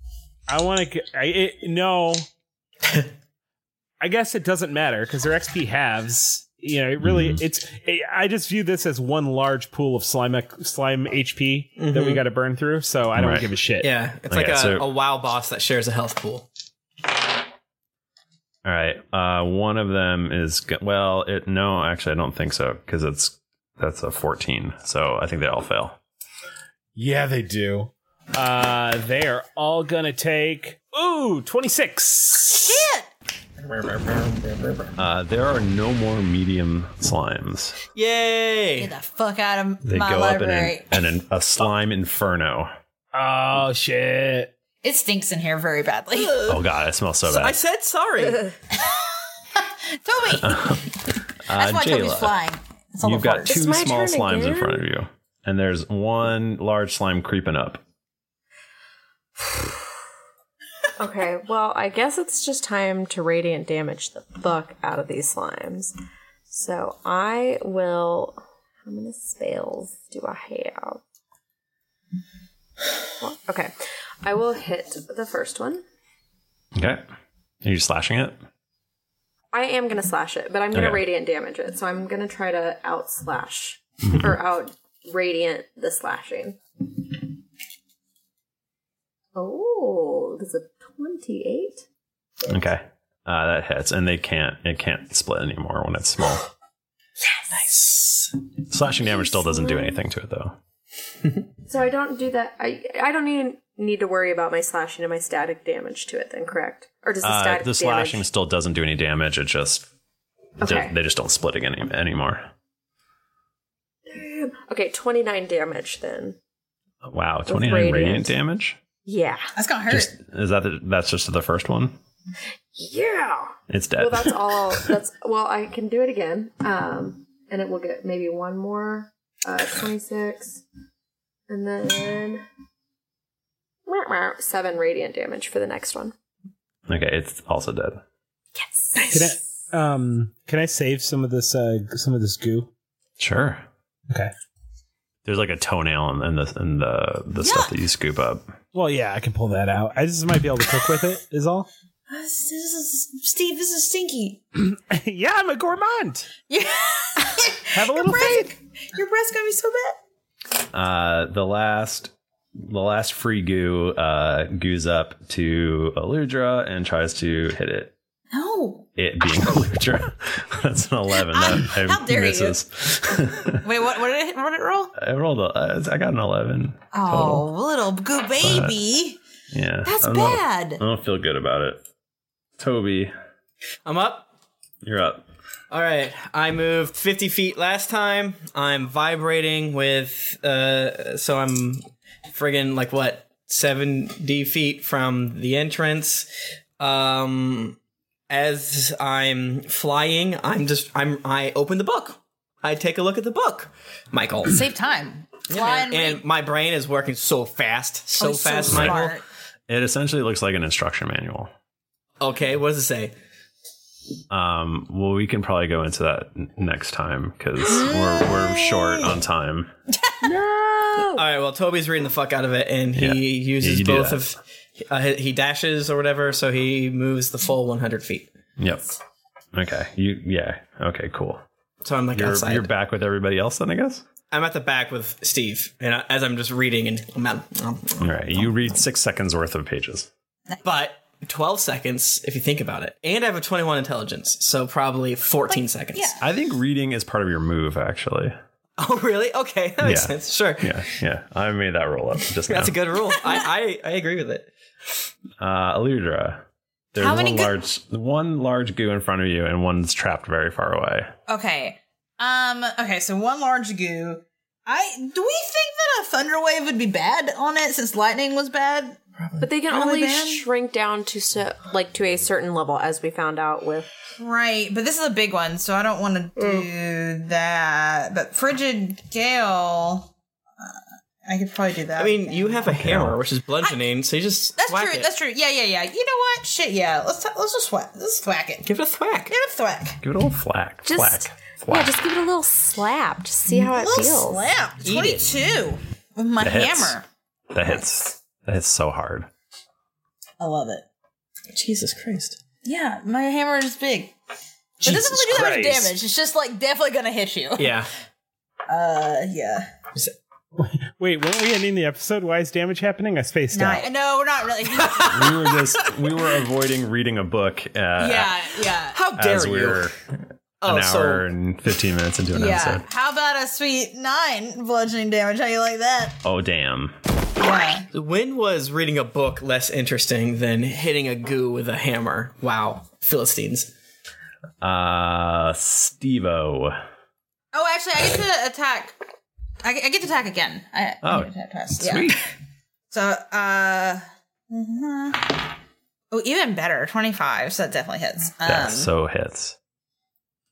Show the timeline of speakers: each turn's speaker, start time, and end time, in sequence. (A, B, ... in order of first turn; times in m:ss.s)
0:00.5-0:02.2 A
0:04.0-0:13.9 A
0:07.0-0:07.4 B
0:11.8-0:12.2 C
0:13.1-0:13.5 B
0:13.8-0:16.5 C
0:14.3-0:14.9 B
0:18.6-0:26.0 B
0:27.0-0:32.8 A
0:32.4-0:33.1 D
0:33.6-0:34.9 C
0:35.0-0:37.8 B
0:37.9-0:38.9 C
0:38.8-0:40.8 D
0:39.8-0:42.7 B
0:43.1-0:44.5 A
0:44.8-0:46.5 D
0:46.4-0:47.6 B
0:47.2-0:48.5 C
0:48.8-0:50.8 D
0:50.4-0:50.9 B
0:51.5-0:52.4 B
0:51.5-0:53.6 D
0:53.0-0:57.8 B
0:53.4-0:54.8 E
1:01.0-1:05.9 E
1:06.5-1:11.0 E
1:13.2-1:15.8 E
1:16.8-1:17.0 B
1:17.6-1:18.4 B
1:19.5-1:26.6 E
1:20.7-1:21.0 B
1:24.0-1:24.4 B
1:29.3-1:31.8 E
1:32.5-1:36.4 B
1:38.7-1:40.5 B
1:39.0-1:40.0 E
1:41.7-1:48.3 E
1:47.2-1:49.9 B
1:50.6-1:50.9 E
1:50.6-1:52.5 B
1:54.1-1:56.4 E
1:57.0-1:58.8 B
1:57.5-1:58.4 E
1:59.0-1:59.5 E
1:59.6-2:00.1 D
1:59.9-2:02.0 B
2:02.8-2:10.6 E
2:03.7-2:04.9 B
2:11.5-2:12.4 E
2:13.8-2:16.1 E
2:16.9-2:18.0 B
2:18.7-2:19.0 E
2:18.9-2:19.3 D
2:19.1-2:22.7 A
2:23.2-2:23.6 B
2:25.2-2:28.5 B
2:27.4-2:27.7 D
2:28.7-2:31.7 A
2:32.1-2:34.4 D
2:34.6-2:36.3 A
2:36.5-2:40.0 D
2:37.7-2:38.5 A
2:40.7-2:42.1 B
2:42.6-2:47.9 B
2:48.3-2:48.9 D
2:49.0-2:53.6 B
2:51.3-2:52.6 D
2:53.5-2:54.9 D
2:54.9-2:57.4 B
2:56.9-2:59.2 D
2:58.4-2:58.8 B
2:59.5-3:01.8 B
2:59.8-3:00.8 D
3:02.6-3:03.1 B
3:03.8-3:04.3 C
3:04.8-3:05.2 B
3:05.7-3:16.3 C
3:16.8-3:17.8 C
3:18.3-3:24.6 C
3:24.5-3:26.2 D
3:25.5-3:29.1 C
3:28.2-3:29.2 D
3:28.7-3:29.0 B
3:29.7-3:31.5 B
3:32.2-3:33.1 C
3:34.3-3:39.7 B
3:37.6-3:39.2 D
3:40.2-3:41.2 E
3:41.1-3:48.3 C
3:43.0-3:44.2 B
3:48.6-3:48.9 B
3:49.5-3:51.4 B
3:51.8-3:52.7 C
3:52.1-3:54.0 B
3:54.3-3:58.1 C
3:58.0-4:00.1 B
4:00.6-4:06.2 C
4:05.5-4:06.2 D
4:06.2-4:08.3 B
4:08.8-4:10.8 C
4:09.8-4:12.7 B
4:12.5-4:14.5 C
4:15.4-4:16.4 B
4:16.9-4:21.1 B
4:17.0-4:17.6 D
4:21.3-4:29.0 D
4:29.4-4:33.9 E
4:29.7-4:30.4 D
4:34.2-4:42.6 D
4:36.4-4:36.7 E
4:42.0-4:45.1 C
4:42.7-4:43.2 B
4:44.6-4:48.7 D
4:48.6-4:49.3 C
4:49.3-4:50.0 D
4:50.0-4:52.0 B
4:50.8-4:54.5 E
4:53.5-4:57.0 D
4:54.8-4:55.2 C
4:56.4-4:57.0 B
4:57.5-4:59.3 B
5:00.4-5:00.8 D
5:01.5-5:02.4 C
5:02.6-5:04.1 D
5:04.8-5:05.9 A
5:04.8-5:07.8 D
5:07.6-5:07.9 C
5:08.7-5:09.7 D
5:10.6-5:13.9 A
5:13.5-5:16.3 D
5:15.1-5:18.3 B
5:18.0-5:19.0 D
5:18.9-5:19.9 C
5:19.2-5:20.0 B
5:20.6-5:21.2 C
5:20.6-5:22.8 B
5:22.3-5:26.2 D
5:26.2-5:26.9 B
5:27.4-5:27.9 D
5:27.9-5:33.7 C
5:34.6-5:36.8 B
5:37.5-5:39.0 D
5:39.6-5:42.2 D
5:41.0-5:42.2 B
5:42.9-5:45.5 D
5:46.1-5:48.9 D
5:48.4-5:49.6 B